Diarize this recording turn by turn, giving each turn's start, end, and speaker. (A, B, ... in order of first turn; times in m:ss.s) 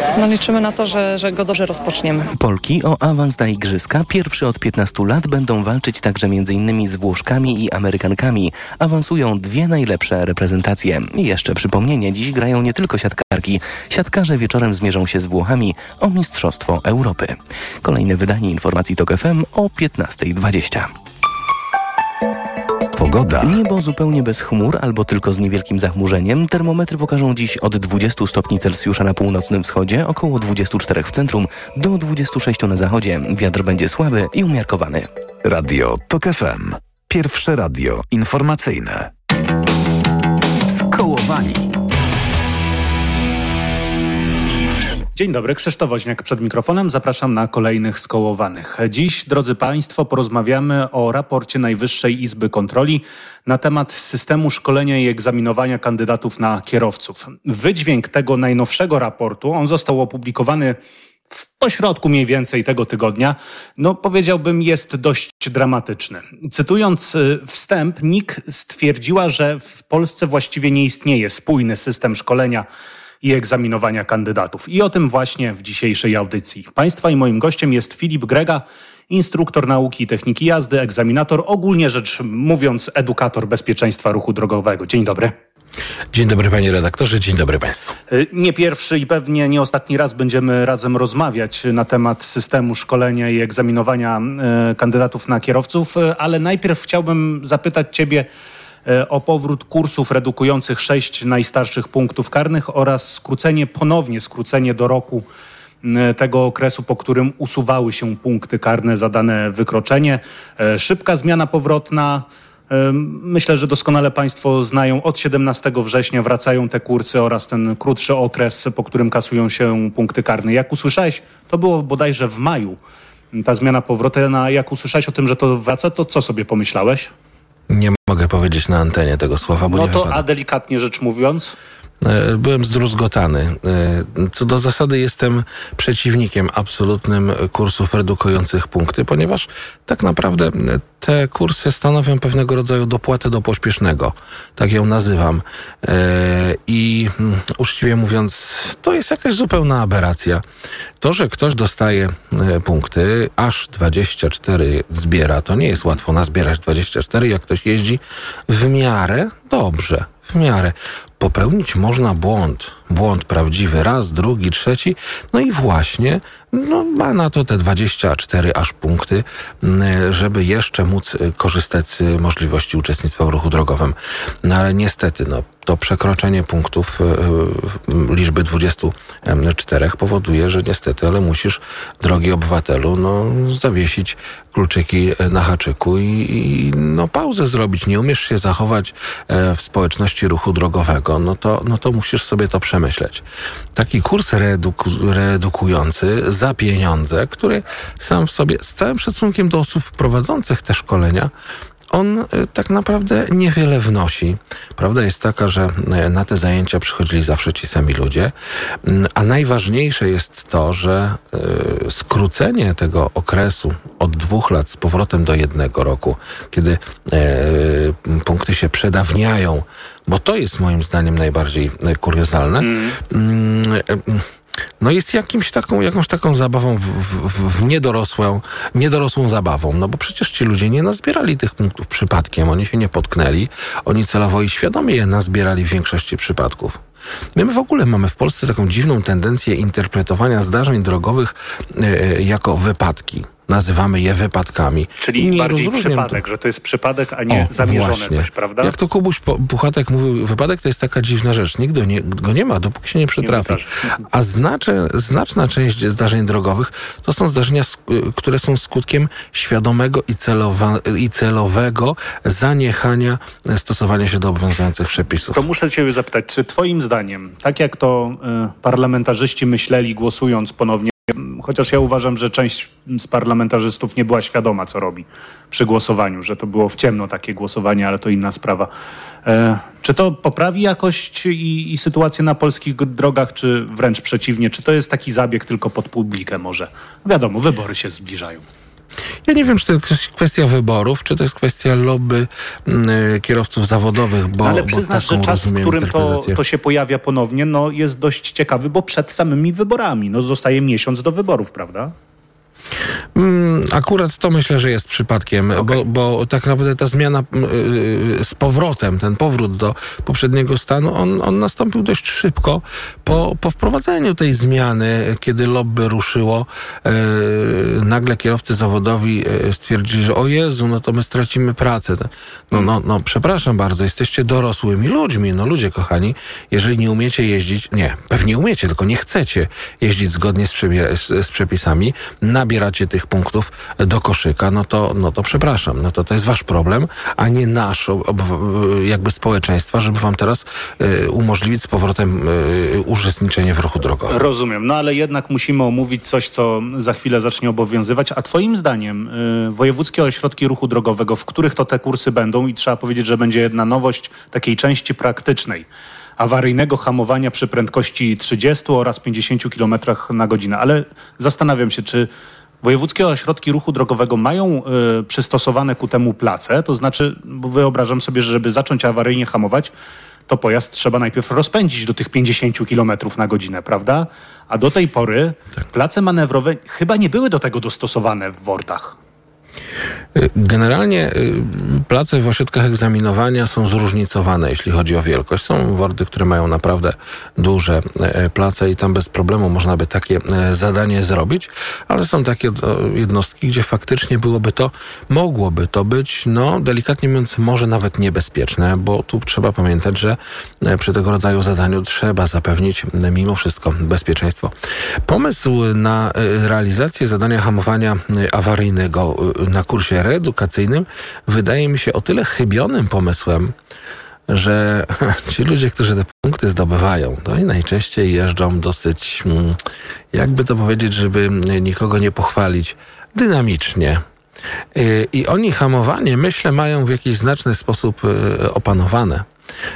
0:00.2-0:02.3 A
0:02.3-0:20.9 B
0:23.0-0:23.5 C
0:23.4-0:35.1 B
0:35.4-0:39.1 C
0:40.8-0:41.6 C
0:45.2-1:00.8 D
1:01.3-1:12.7 D
1:13.2-1:25.3 D
1:26.1-1:27.9 E
1:28.1-1:38.3 D
1:38.9-1:45.3 D
1:45.8-2:02.8 D
2:03.3-2:07.1 D
2:07.7-2:10.2 E
2:09.7-2:11.6 D
2:12.0-2:30.4 E
2:31.0-3:13.2 E
3:13.8-3:21.3 E
3:21.9-3:28.3 E
3:28.8-3:44.2 E
3:42.6-3:43.0 D
3:44.8-3:56.8 E
3:57.4-4:06.2 E
4:05.0-4:08.8 D
4:07.3-4:25.4 E
4:13.2-4:13.9 D
4:25.3-4:38.7 D
4:39.3-4:48.4 D
4:49.3-4:56.4 E
4:54.4-5:01.9 D
5:03.2-5:44.2 E
5:05.6-5:05.8 D
5:44.1-5:55.7 D
5:56.2-6:02.1 D
6:02.6-6:09.7 D
6:10.3-6:19.0 D
6:20.2-6:44.5 E
6:45.0-6:53.5 E
6:54.3-6:59.6 E
7:00.1-7:04.0 E
7:04.8-7:09.3 E